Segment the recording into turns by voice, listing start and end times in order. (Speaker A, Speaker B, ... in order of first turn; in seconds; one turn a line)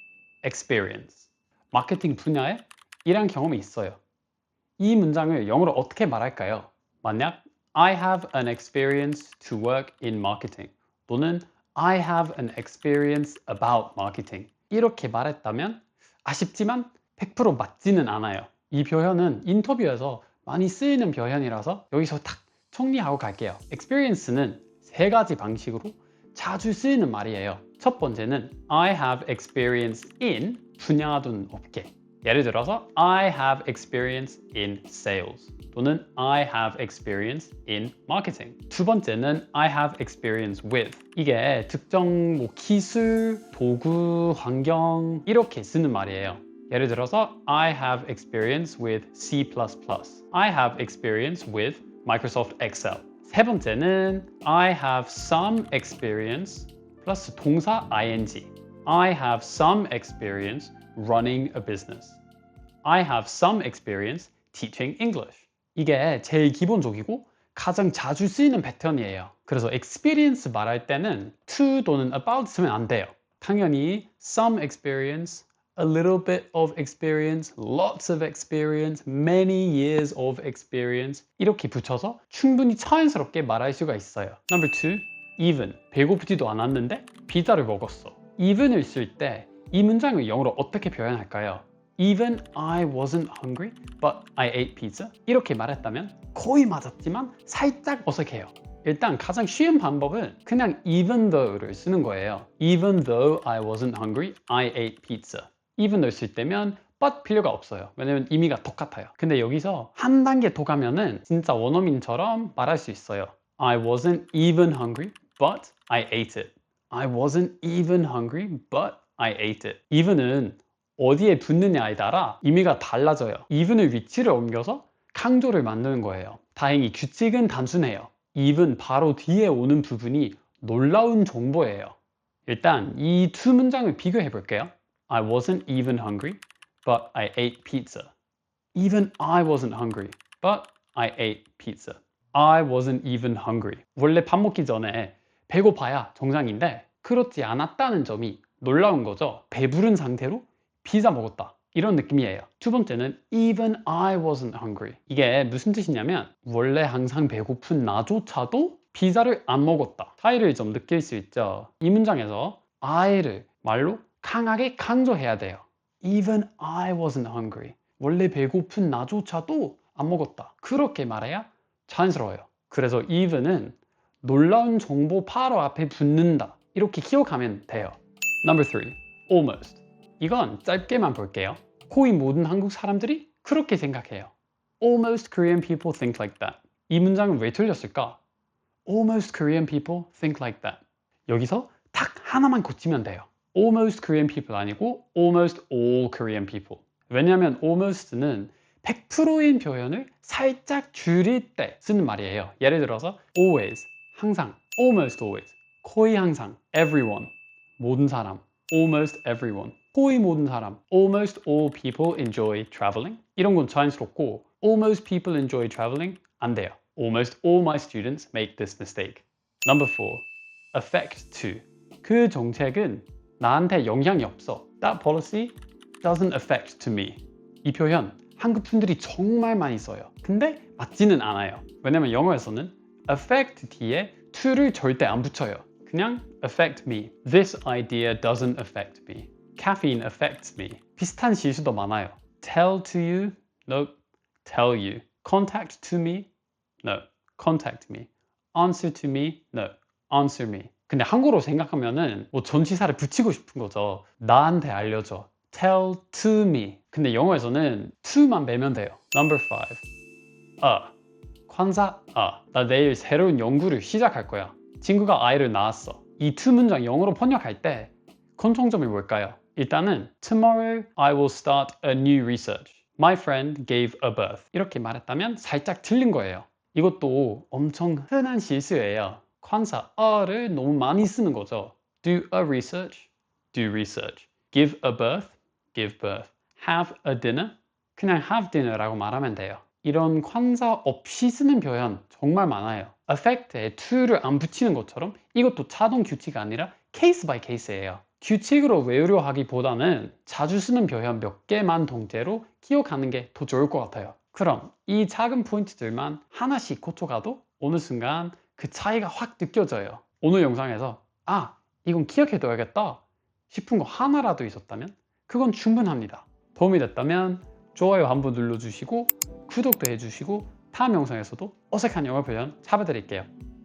Speaker A: 0.4-4.0
Speaker A: 4.8-62.2
Speaker A: 62.8-131.9
Speaker A: 132.5-138.1
Speaker A: 138.7-188.2
Speaker A: 188.8-246.3
Speaker A: 246.8-259.8
Speaker A: 260.6-260.9
Speaker A: 261.5-323.3